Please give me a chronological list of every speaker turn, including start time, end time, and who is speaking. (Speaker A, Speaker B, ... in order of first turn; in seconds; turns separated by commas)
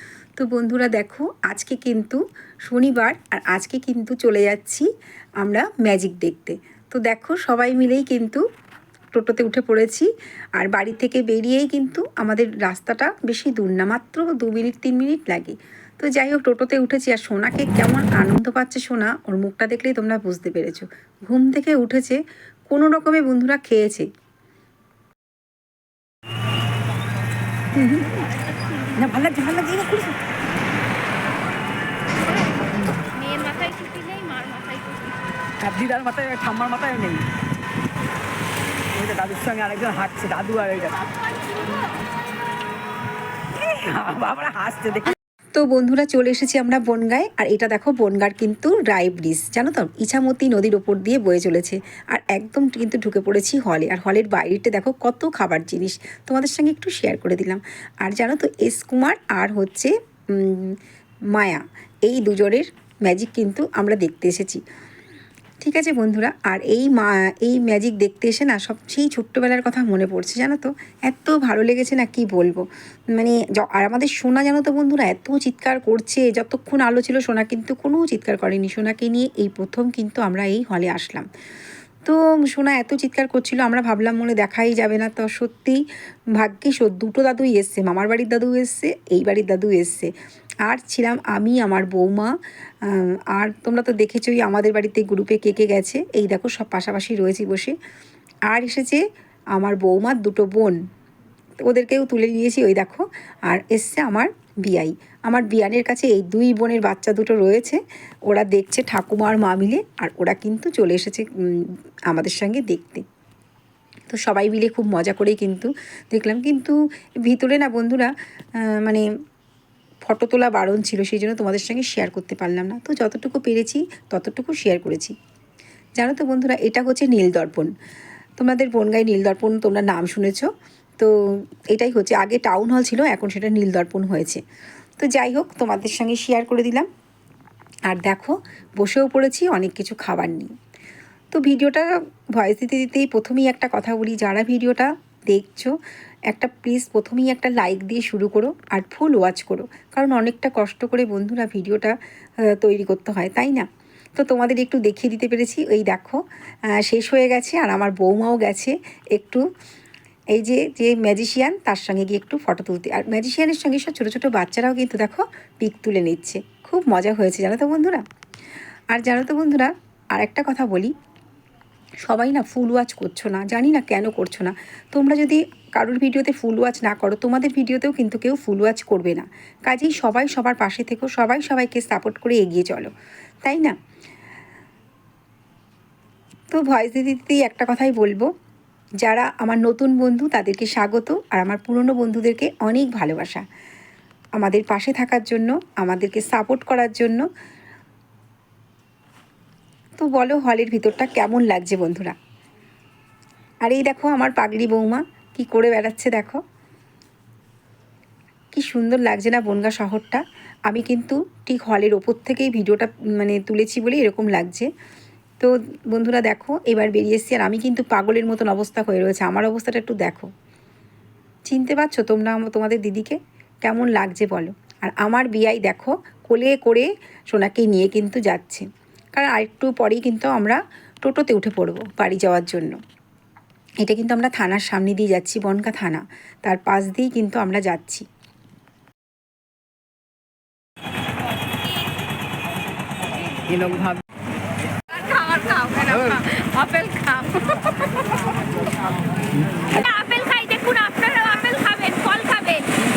Speaker A: 0.3-4.8, Speaker A: 5.4-8.4, Speaker A: 9.1-24.1, Speaker A: 27.7-28.2, Speaker B: 28.4-28.9, Speaker C: 29.0-30.0, Speaker A: 29.1-30.1, Speaker B: 33.1-35.2, Speaker C: 35.6-37.2, Speaker C: 38.9-41.0, Speaker B: 41.0-42.0, Speaker C: 43.5-45.1, Speaker A: 45.5-60.8, Speaker A: 61.3-64.6, Speaker A: 65.6-81.3, Speaker A: 82.0-85.8, Speaker A: 86.3-90.1, Speaker A: 90.6-97.8, Speaker A: 98.5-99.0, Speaker A: 99.5-100.8, Speaker A: 101.6-113.0, Speaker A: 114.1-119.0, Speaker A: 120.0-125.1, Speaker A: 126.0-127.7, Speaker A: 128.4-134.4, Speaker A: 135.0-136.9, Speaker A: 137.9-140.5, Speaker A: 141.3-145.8, Speaker A: 146.3-151.9, Speaker A: 152.5-153.6, Speaker A: 154.2-156.2, Speaker A: 156.8-159.4, Speaker A: 160.3-168.0, Speaker A: 168.9-170.9, Speaker A: 172.1-182.9, Speaker A: 183.4-183.7, Speaker A: 186.5-188.3, Speaker A: 189.0-193.4, Speaker A: 194.4-197.2, Speaker A: 200.0-202.1, Speaker A: 203.6-206.4, Speaker A: 208.5-214.7, Speaker A: 215.4-220.3, Speaker A: 221.4-232.8, Speaker A: 233.8-238.0, Speaker C: 243.5-244.0, Speaker B: 244.9-248.4, Speaker B: 249.7-252.7